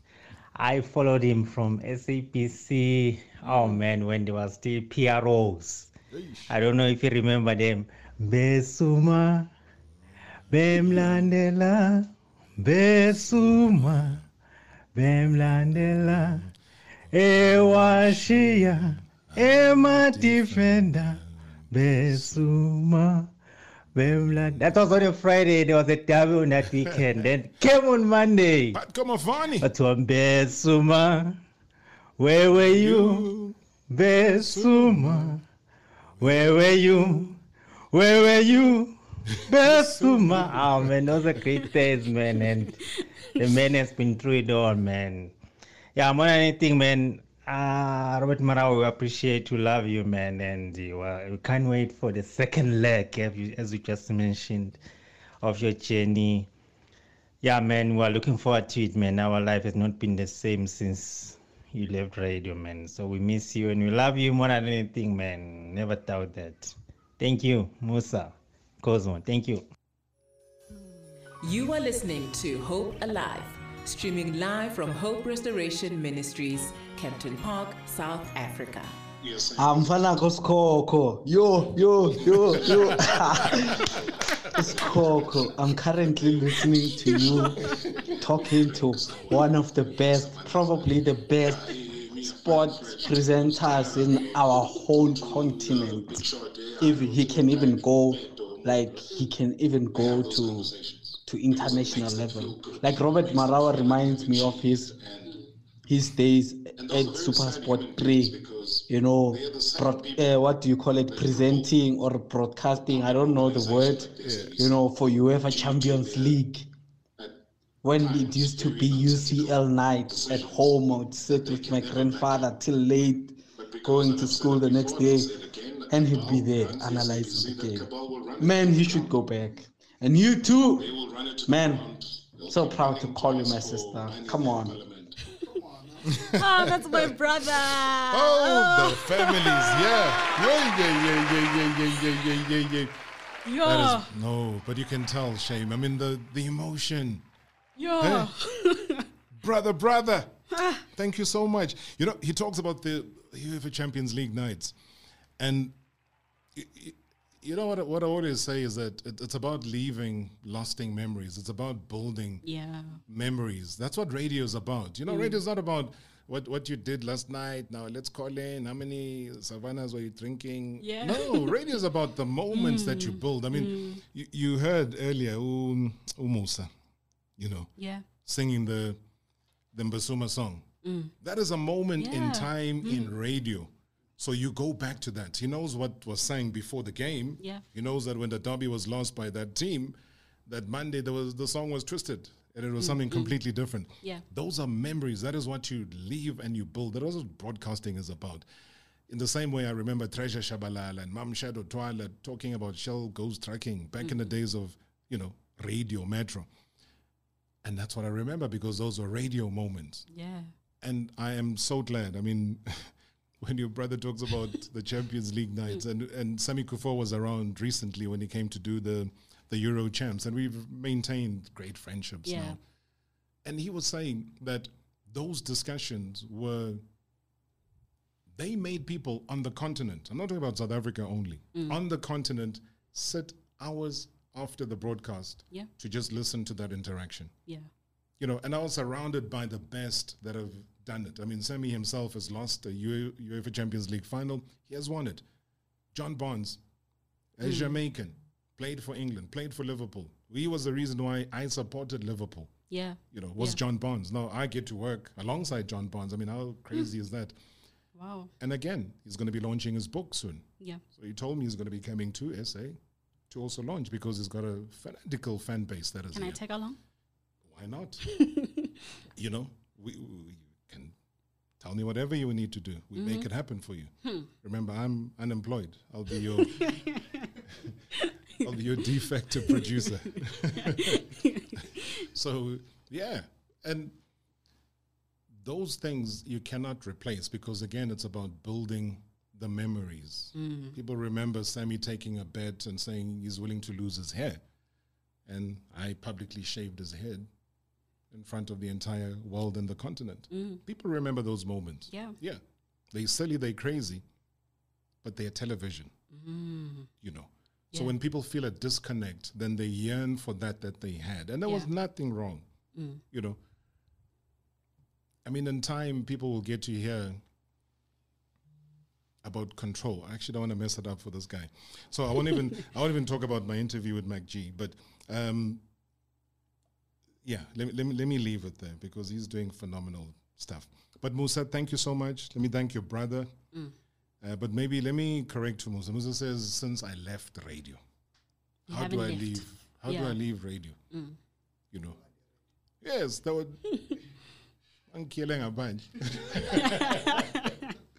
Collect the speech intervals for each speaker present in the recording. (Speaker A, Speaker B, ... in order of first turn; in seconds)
Speaker A: 0.6-5.9, 6.5-9.5, 10.5-14.2, 15.0-16.5, 17.1-21.2, 21.7-23.3, 23.9-28.8, 29.6-31.4, 32.2-33.3, 33.9-35.4, 36.2-37.4, 37.9-42.8, 43.4-45.4, 46.0-54.8, 55.4-56.5, 57.4-69.7
Speaker B: 6.1-6.5, 10.7-11.3, 13.1-14.3, 15.7-16.5, 17.2-22.5, 24.2-24.9, 28.7-29.7, 32.5-33.6, 34.2-35.4, 36.2-37.2, 39.5-40.9, 103.6-104.8, 106.9-110.3, 111.4-111.6, 113.4-114.8, 118.1-119.5, 121.3-122.3, 123.8-129.1, 130.8-135.2, 136.0-137.2, 137.8-143.0, 143.6-147.2, 148.0-148.3, 149.3-154.8, 155.4-155.8, 156.5-162.4, 163.1-176.7, 177.4-179.0, 179.7-180.7, 181.2-198.5, 199.1-206.5, 207.6-210.1, 210.8-222.6, 223.4-226.8, 228.3-237.3, 238.2-245.2, 245.9-246.6, 247.4-252.5, 253.1-257.4, 258.4-262.8, 263.3-266.4, 267.4-268.0, 269.2-271.0, 271.6-276.7, 278.4-281.1, 282.1-284.0, 285.3-294.4, 295.3-297.3, 298.1-304.1, 305.0-305.9, 307.0-312.5, 313.1-313.4, 315.2-317.2, 319.2-325.6, 327.2-333.3, 334.2-337.8, 338.7-340.8, 341.7-342.0, 342.8-343.6, 344.9-347.2
Speaker C: 71.4-79.0
Speaker D: 79.6-83.8, 84.6-87.6, 88.2-104.9, 105.9-116.7, 117.8-125.3, 125.9-127.9, 128.4-130.9, 131.5-131.9, 132.5-134.8
Speaker E: 136.3-140.6, 143.4-144.1, 147.8-149.1, 150.5-150.8, 162.4-163.0, 165.1-165.4, 170.8-171.6, 172.5-174.0, 177.8-178.1, 180.8-181.1, 182.0-183.1, 192.8-193.3, 210.1-210.5, 222.2-222.6, 247.4-247.8, 252.7-253.6, 258.0-258.3, 266.1-266.8, 268.1-268.7, 273.0-273.3, 276.4-277.3, 280.6-281.5, 290.4-290.8, 300.3-300.6, 301.9-302.2, 306.1-306.9, 311.4-311.7, 312.8-313.0, 338.7-340.2, 340.9-341.2, 346.6-347.7